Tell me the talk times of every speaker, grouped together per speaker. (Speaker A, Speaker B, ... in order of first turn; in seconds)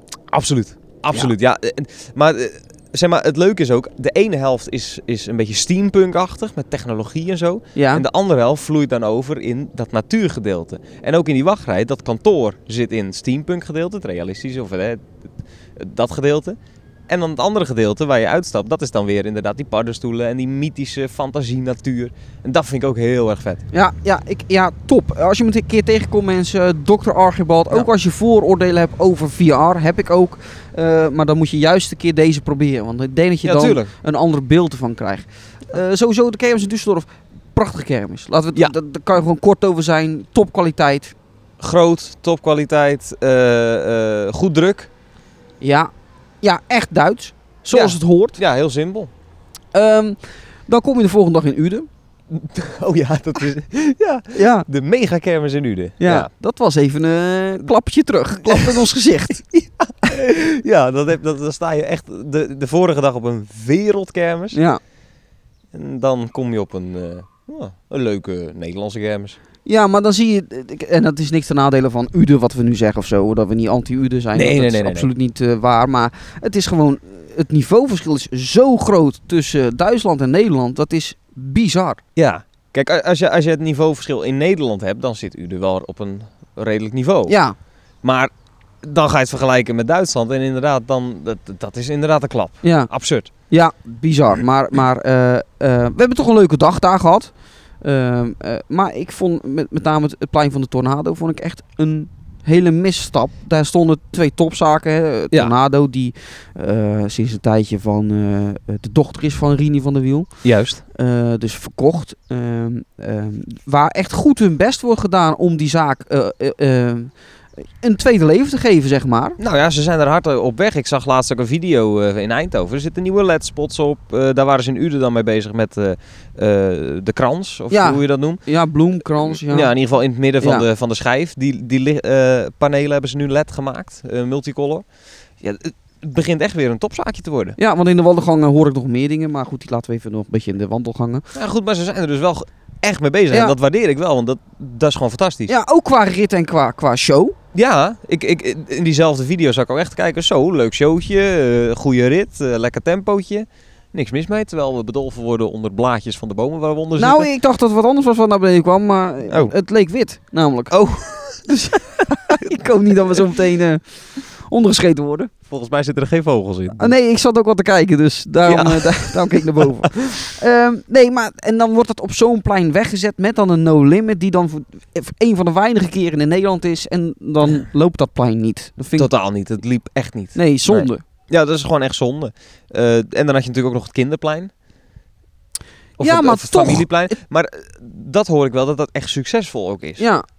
Speaker A: 0.3-15.2, 15.8-16.6, 17.1-23.6, 33.4-33.9, 41.6-44.9, 47.7-49.1, 52.3-56.3, 58.4-58.9, 59.4-64.6, 65.7-69.4, 74.3-75.1, 82.2-87.3, 88.0-88.3, 88.8-93.3, 110.4-110.8, 119.4-128.4, 129.2-134.8, 135.4-137.6, 141.3-145.5, 147.5-157.3, 159.3-159.5, 160.7-161.4, 165.5-166.9, 168.4-169.8, 179.0-184.5, 186.0-190.0
Speaker B: 7.8-8.0, 23.7-41.1, 45.6-45.9, 46.4-48.4, 49.7-51.9, 54.3-54.6, 56.0-59.4, 64.5-64.8, 69.7-82.0, 87.3-87.6, 92.6-92.9, 93.5-97.3, 97.8-110.3, 110.9-117.1, 117.8-119.4, 127.7-129.7, 130.4-130.7, 137.6-141.2, 145.5-147.3, 157.0-160.7, 161.5-165.3, 166.8-179.1, 180.3-181.0, 186.0-186.9, 190.0-190.2